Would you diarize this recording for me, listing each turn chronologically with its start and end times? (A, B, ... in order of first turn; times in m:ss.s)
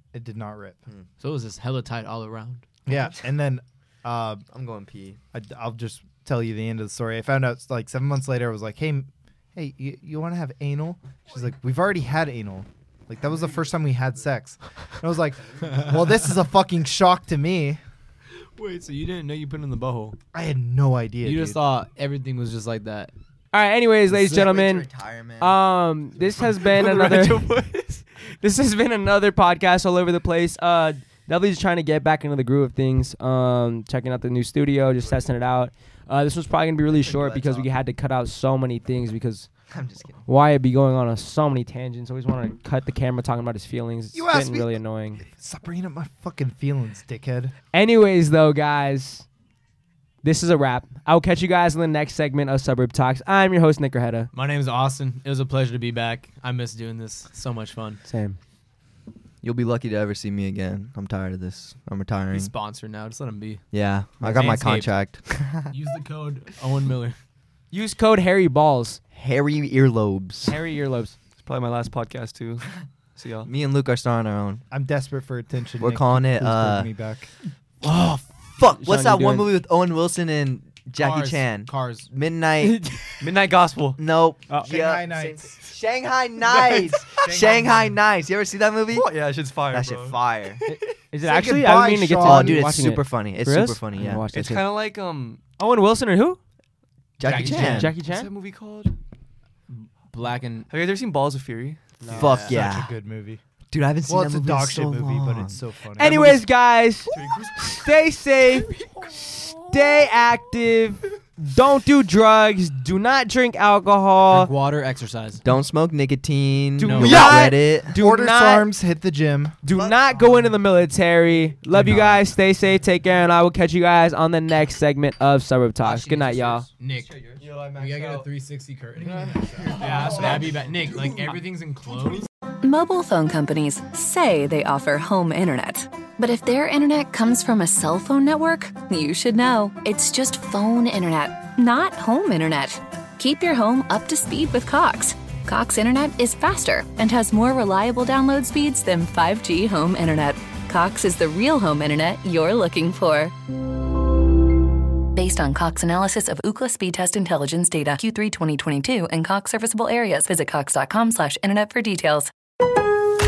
0:00.1-0:00.8 A
0:01.2-0:02.7 B
0:02.9-0:04.4 A
0:04.5-0:05.2 C
0:05.3-0:17.8 A
0:18.6-0:20.2 B
0:20.3-0:21.6 A
0:21.2-0:23.1 B
0:23.5-0:27.5 D
0:24.1-0:25.6 C
0:26.4-0:28.0 E
0:28.4-0:39.5 D
0:36.9-0:37.7 C
0:39.7-0:40.3 C
0:40.3-0:45.2 D
0:44.1-0:47.5 A
0:47.7-0:49.3 D
0:50.2-0:54.3 D
0:54.3-0:58.0 B
0:58.0-0:58.4 D
0:59.4-1:02.5 C
1:02.3-1:03.6 B
1:03.7-1:05.7 C
1:04.2-1:05.0 B
1:05.7-1:07.2 B
1:07.7-1:09.0 D
1:09.1-1:10.6 C
1:10.4-1:11.2 D
1:11.4-1:13.5 E
1:13.4-1:14.6 C
1:14.7-1:17.3 A
1:15.8-1:16.9 C
1:17.8-1:22.8 C
1:18.6-1:19.5 D
1:21.0-1:22.1 B
1:22.6-1:23.3 D
1:23.2-1:24.0 E
1:24.0-1:29.2 C
1:24.5-1:25.6 A
1:26.6-1:27.3 E
1:27.2-1:27.7 A
1:28.9-1:30.2 E
1:29.7-1:30.6 C
1:30.7-1:34.8 D
1:31.2-1:32.7 A
1:32.2-1:34.3 C
1:34.3-1:35.4 E
1:35.6-1:36.4 D
1:37.2-1:38.0 C
1:37.2-1:37.9 B
1:37.4-1:38.3 D
1:37.5-1:39.0 E
1:40.1-1:40.7 B
1:40.7-1:42.2 E
1:42.0-1:42.3 D
1:42.1-1:42.6 B
1:42.1-1:43.0 C
1:42.5-1:43.4 A
1:43.7-1:45.6 C
1:44.1-1:46.4 A
1:46.0-1:48.7 D
1:47.1-1:47.9 E
1:49.6-1:54.5 D
1:54.3-1:55.4 B
1:55.4-1:58.0 C
1:56.8-1:58.7 D
1:56.8-1:57.4 B
1:57.9-1:59.6 A
1:59.6-2:00.6 C
1:59.6-2:06.7 D
2:01.7-2:02.2 B
2:05.8-2:07.2 B
2:06.9-2:07.5 C
2:07.4-2:08.3 E
2:07.7-2:12.3 B
2:09.3-2:10.6 E
2:09.7-2:10.4 D
2:12.6-2:33.3 F
2:35.2-2:42.3 F